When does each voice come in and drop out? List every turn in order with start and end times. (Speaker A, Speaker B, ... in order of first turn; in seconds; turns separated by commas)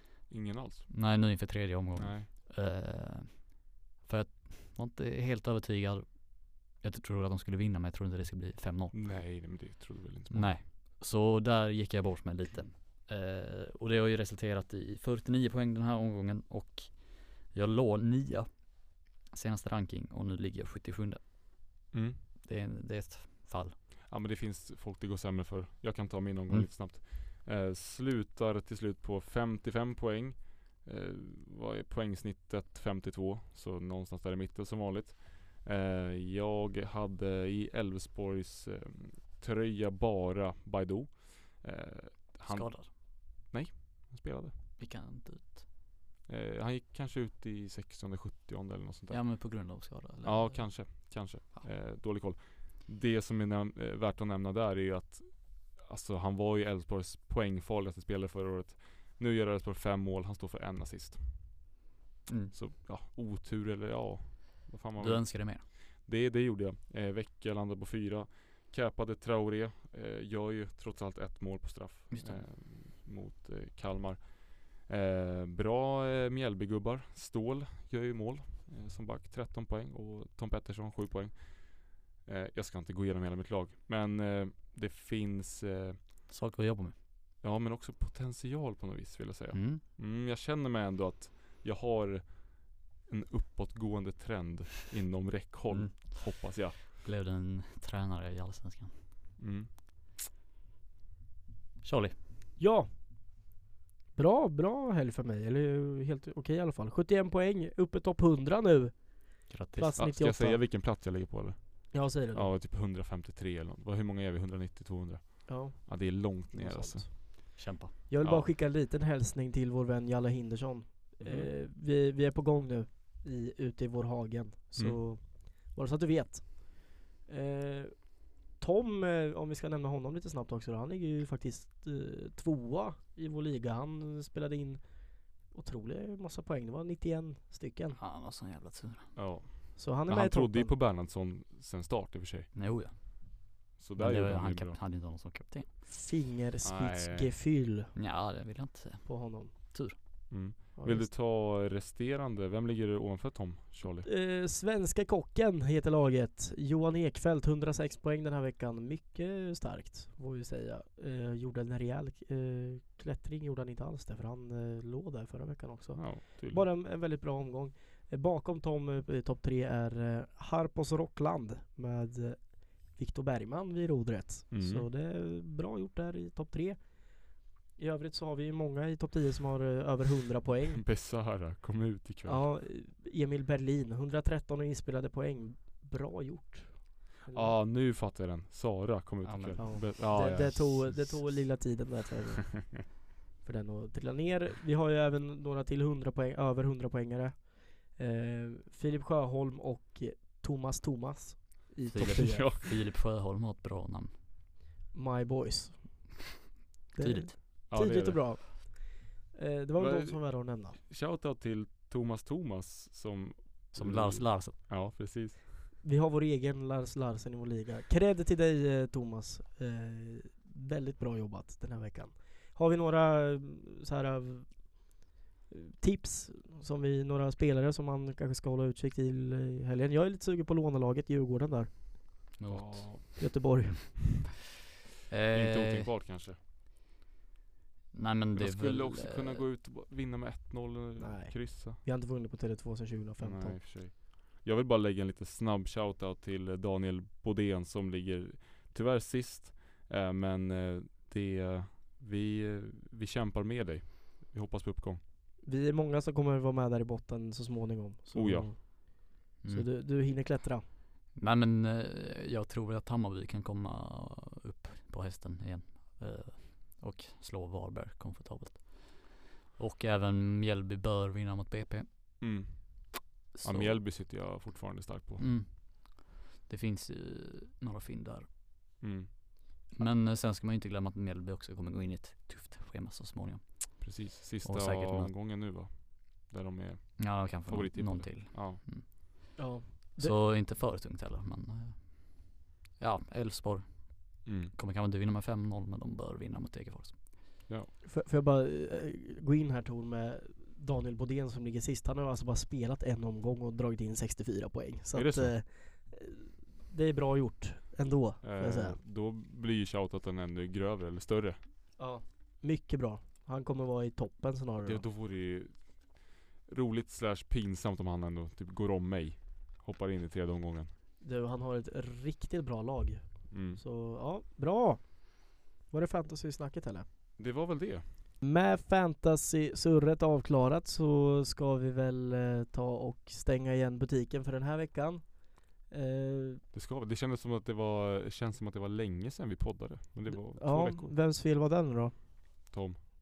Speaker A: 0.3-0.9, Speaker B: 0.9-9.0, Speaker A: 2.0-2.3, Speaker A: 8.9-10.6, Speaker B: 10.3-21.2, Speaker A: 21.9-22.2, Speaker B: 22.4-23.8, Speaker A: 24.1-44.5, Speaker B: 42.5-42.9, Speaker B: 44.8-45.6, Speaker A: 46.3-61.7, Speaker B: 49.1-51.7, Speaker B: 62.3-62.5, Speaker A: 62.5-86.0, Speaker B: 65.0-65.6, Speaker B: 72.1-72.4, Speaker B: 86.3-86.9, Speaker A: 87.4-96.8, Speaker B: 89.5-89.8, Speaker B: 95.7-98.9, Speaker A: 99.4-99.7, Speaker B: 101.8-102.2, Speaker C: 102.6-102.9, Speaker C: 104.1-110.6, Speaker B: 109.5-110.0, Speaker A: 110.0-117.5, Speaker C: 111.9-112.5, Speaker C: 115.5-138.0, Speaker B: 117.5-117.9, Speaker A: 118.2-118.5, Speaker A: 121.2-121.5, Speaker A: 124.8-125.0, Speaker B: 138.0-139.2, Speaker A: 139.1-142.5, Speaker C: 139.8-140.8, Speaker B: 142.5-145.7, Speaker A: 143.8-144.8, Speaker C: 145.9-147.9, Speaker A: 146.6-147.3, Speaker B: 147.9-149.9, Speaker C: 149.1-149.5, Speaker A: 150.3-154.1, Speaker C: 150.8-151.1, Speaker C: 154.0-177.2, Speaker A: 165.9-166.7, Speaker A: 174.5-174.9, Speaker C: 177.8-180.8, Speaker A: 180.7-182.5, Speaker C: 182.2-187.6, Speaker A: 187.3-191.5, Speaker B: 189.2-190.4, Speaker C: 189.6-202.5, Speaker B: 201.9-204.1, Speaker A: 201.9-202.7, Speaker C: 204.9-206.3, Speaker C: 206.9-210.8, Speaker B: 207.0-207.3, Speaker A: 207.7-208.4, Speaker A: 209.8-215.5, Speaker B: 213.7-214.6, Speaker C: 215.8-224.9, Speaker C: 225.5-232.0, Speaker B: 232.4-233.2, Speaker A: 232.5-233.1, Speaker C: 233.2-234.2, Speaker B: 235.1-235.9, Speaker A: 235.3-236.4, Speaker B: 237.9-239.4, Speaker A: 238.3-241.8, Speaker C: 241.0-243.6, Speaker A: 243.2-255.0, Speaker C: 255.4-260.6, Speaker A: 258.1-258.5, Speaker B: 259.4-259.7, Speaker B: 261.1-272.3, Speaker A: 272.2-275.3, Speaker B: 273.3-273.8, Speaker B: 275.2-278.3, Speaker A: 278.8-279.1, Speaker B: 279.7-285.1, Speaker A: 283.8-288.6, Speaker B: 287.0-297.0, Speaker C: 289.4-290.1, Speaker A: 294.2-294.5, Speaker C: 297.8-308.8, Speaker A: 304.9-305.3, Speaker A: 308.2-311.4, Speaker C: 311.8-314.8, Speaker A: 314.6-320.7, Speaker C: 321.0-326.9, Speaker A: 323.3-323.6, Speaker A: 327.2-327.9, Speaker C: 328.2-336.4, Speaker A: 336.5-340.9, Speaker C: 340.1-341.9, Speaker A: 342.5-342.8